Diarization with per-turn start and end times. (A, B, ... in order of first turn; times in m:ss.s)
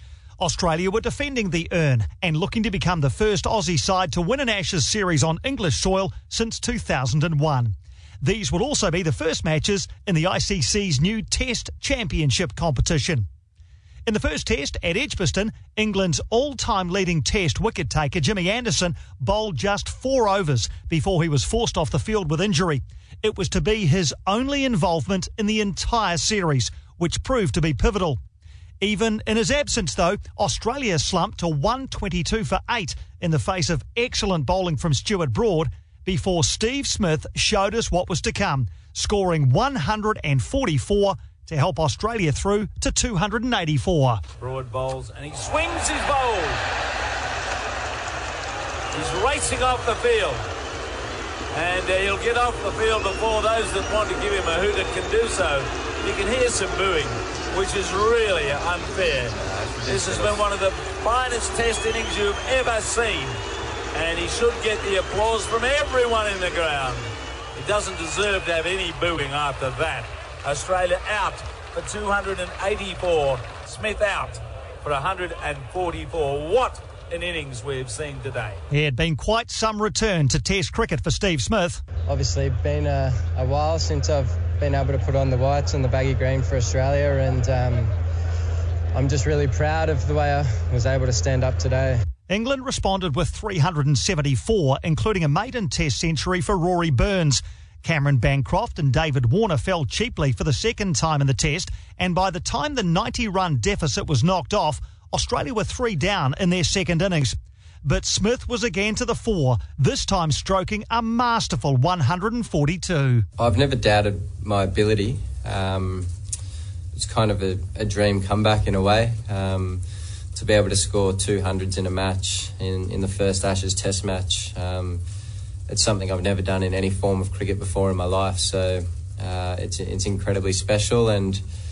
0:00.4-0:13.3 A
0:14.0-0:28.2 A
0:28.8-0:44.2 A
0:44.4-0:46.6 B
0:48.9-0:50.4 B
0:51.5-1:03.4 B
0:59.3-1:00.5 C
1:03.9-1:18.6 B
1:18.7-1:21.8 A
1:22.1-1:27.9 D
1:28.9-1:32.0 D
1:32.3-1:53.2 A
1:53.4-1:56.1 C
1:56.9-1:59.8 C
2:00.3-2:05.0 C
2:05.7-2:11.4 C